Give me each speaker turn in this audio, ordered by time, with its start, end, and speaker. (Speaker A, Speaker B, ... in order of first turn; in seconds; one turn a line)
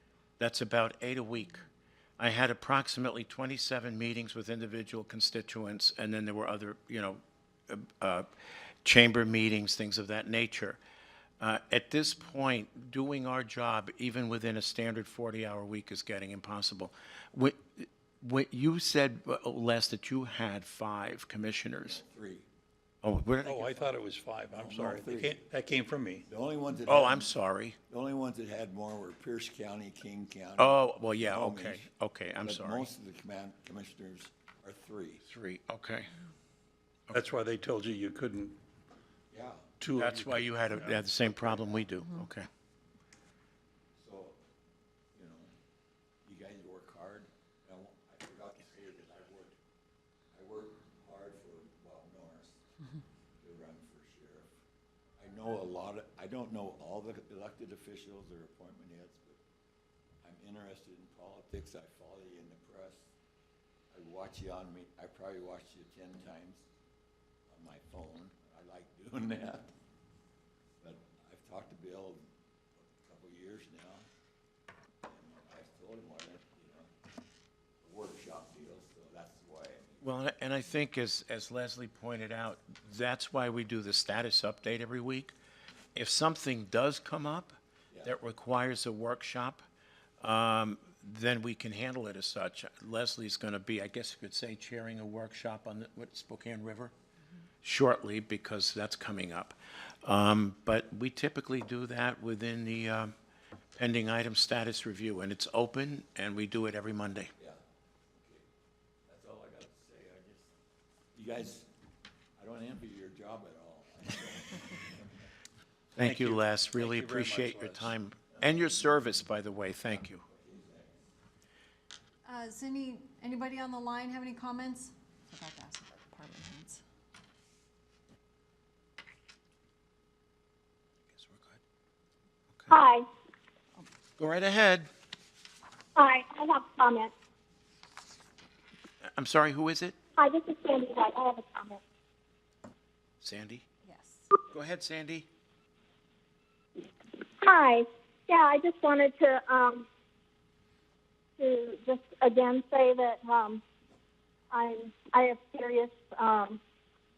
Speaker A: 0.4-1.7
Speaker A: 2.2-8.3
Speaker A: 8.8-10.8
Speaker A: 11.4-22.0
Speaker B: 21.8-22.5
Speaker A: 23.0-23.9
Speaker C: 23.4-26.2
Speaker B: 24.5-25.4
Speaker B: 26.3-27.3
Speaker A: 26.9-27.8
Speaker B: 27.9-31.9
Speaker A: 30.6-32.9
Speaker B: 32.4-35.2
Speaker A: 35.2-36.1
Speaker C: 37.1-38.6
Speaker B: 39.3-39.7
Speaker C: 39.8-40.4
Speaker A: 40.0-42.5
Speaker B: 44.0-44.4
Speaker B: 45.1-45.5
Speaker B: 46.2-49.6
Speaker B: 50.3-52.6
Speaker B: 53.4-54.5
Speaker B: 55.2-59.4
Speaker B: 60.2-63.1
Speaker B: 63.9-66.7
Speaker B: 67.5-69.7
Speaker B: 70.8-72.2
Speaker B: 72.8-74.0
Speaker B: 75.0-76.9
Speaker B: 77.8-80.1
Speaker A: 80.0-85.3
Speaker A: 86.0-89.7
Speaker A: 90.2-96.9
Speaker A: 97.6-103.1
Speaker A: 103.8-107.3
Speaker B: 108.1-108.5
Speaker B: 109.1-110.5
Speaker B: 111.1-111.7
Speaker B: 112.4-115.3
Speaker A: 116.0-120.2
Speaker C: 116.0-117.9
Speaker B: 120.1-121.0
Speaker D: 122.2-126.8
Speaker A: 131.1-131.6
Speaker E: 132.7-133.1
Speaker A: 134.2-134.9
Speaker E: 136.0-137.1
Speaker A: 139.1-140.0
Speaker E: 140.2-141.8
Speaker A: 143.2-143.7
Speaker D: 143.9-144.3
Speaker A: 144.5-145.3
Speaker E: 147.4-149.9
Speaker E: 151.4-153.6
Speaker E: 154.5-156.6